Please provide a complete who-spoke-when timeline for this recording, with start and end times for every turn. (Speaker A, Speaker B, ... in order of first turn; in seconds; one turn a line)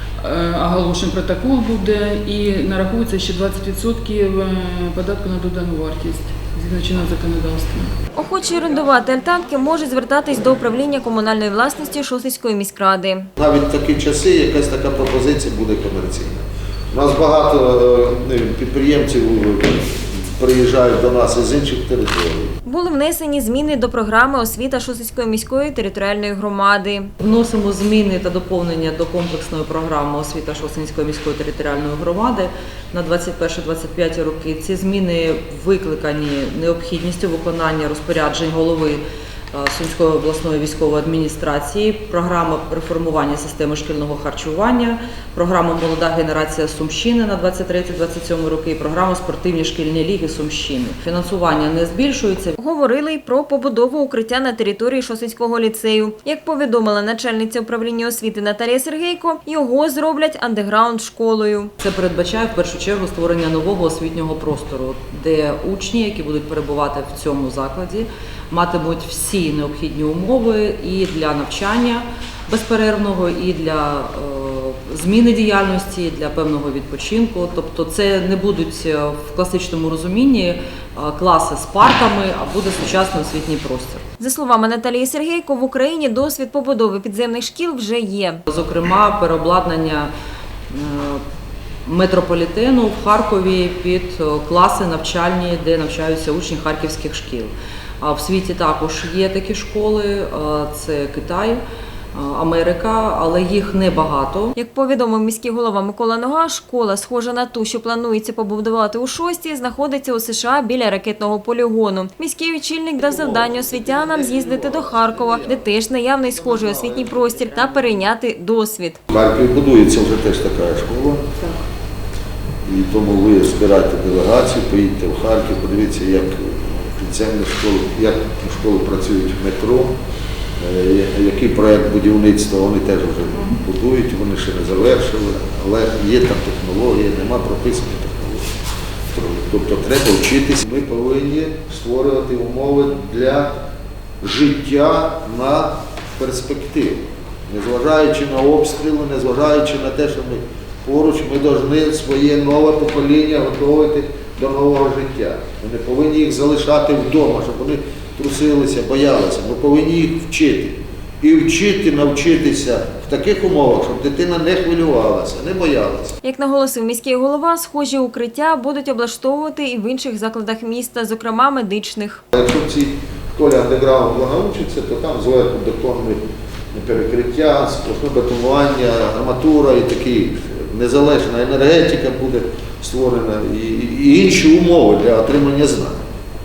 Speaker A: 0.2-8.0
Speaker B: 8.2-13.3
Speaker C: 13.4-22.5
Speaker B: 22.7-27.1
Speaker D: 27.2-52.6
Speaker B: 52.6-61.7
Speaker D: 61.8-84.0
Speaker B: 84.2-88.4
Speaker D: 88.5-90.1
Speaker D: 90.7-91.2
Speaker D: 91.8-101.6
Speaker D: 102.1-104.5
Speaker B: 104.5-119.0
Speaker C: 113.0-117.6
Speaker C: 119.1-121.3
Speaker C: 122.6-129.9
Speaker C: 130.6-138.5
Speaker C: 139.1-143.6
Speaker C: 144.2-166.2
Speaker B: 166.2-172.2
Speaker C: 172.3-176.2
Speaker C: 176.7-186.0